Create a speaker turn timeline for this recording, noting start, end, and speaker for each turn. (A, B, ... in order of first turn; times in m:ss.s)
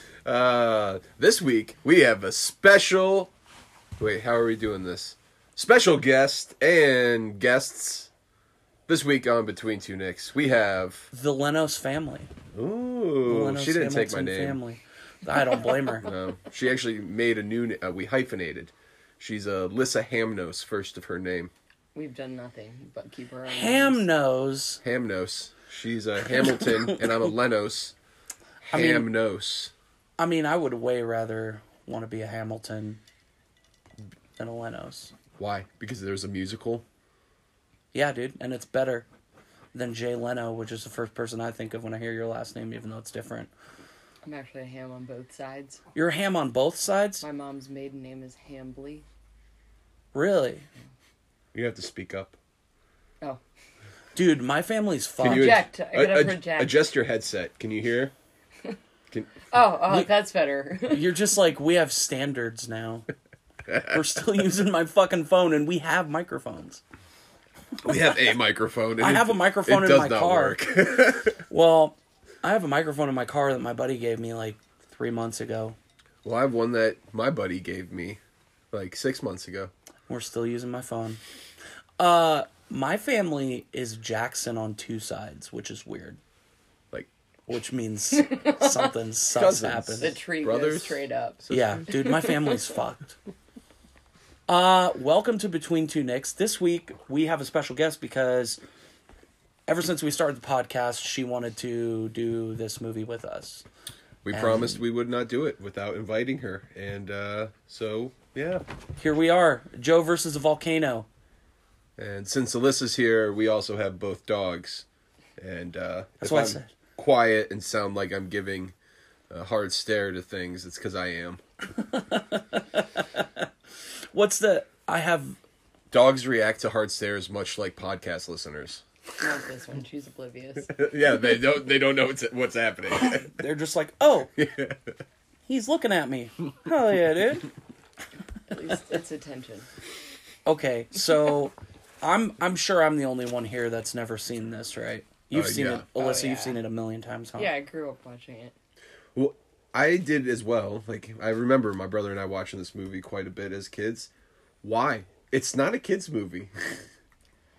0:00.2-0:03.3 A
0:04.0-0:08.1 A
0:08.9-0:11.1 A
0:11.1-0:12.3 B
0:12.5-0:14.6 A
0:13.2-0:16.1 B
0:16.0-0:21.5 A
0:21.9-0:24.0 C
0:23.5-0:24.8 B
0:24.8-0:27.9 A
0:26.4-0:27.0 B
0:28.6-0:29.7 A
0:28.7-0:29.1 B
0:30.2-0:33.0 B
0:34.4-0:35.1 B
0:35.4-0:36.8 A
0:37.9-0:39.0 B
0:39.7-0:43.5 B
0:44.2-0:45.8 C
0:45.9-0:47.2 B
0:47.2-0:49.0 C
0:50.1-0:50.6 B
0:51.5-0:52.4 A
0:54.1-0:55.6 B
0:55.2-0:58.1 A
0:55.2-0:56.8 C
0:59.1-0:59.4 A
0:59.5-1:01.1 C
1:00.9-1:03.1 B
1:03.7-1:04.0 A
1:03.8-1:06.8 B
1:07.8-1:11.4 A
1:07.9-1:08.1 B
1:09.0-1:10.6 B
1:11.5-1:15.8 B
1:16.2-1:18.2 A
1:18.7-1:19.7 A
1:20.1-1:21.2 B
1:22.0-1:26.2 B
1:27.5-1:30.1 B
1:28.1-1:28.9 C
1:29.3-1:31.8 A
1:30.0-1:32.7 C
1:31.5-1:33.2 B
1:34.5-1:38.6 B
1:39.7-1:43.6 B
1:44.2-1:48.6 A
1:44.3-1:44.8 B
1:49.0-1:51.1 B
1:52.0-1:54.8 A
1:55.4-1:58.7 A
1:56.2-1:56.7 B
1:59.3-2:01.4 A
2:01.7-2:03.5 B
2:04.1-2:05.4 B
2:05.9-2:08.8 A
2:09.2-2:10.8 C
2:10.7-2:13.3 A
2:13.0-2:14.3 B
2:14.4-2:14.9 A
2:15.4-2:17.5 B
2:18.5-2:19.7 C
2:20.4-2:27.5 B
2:25.3-2:25.8 A
2:26.0-2:26.6 C
2:27.4-2:28.5 C
2:29.1-2:34.1 A
2:34.6-2:36.6 A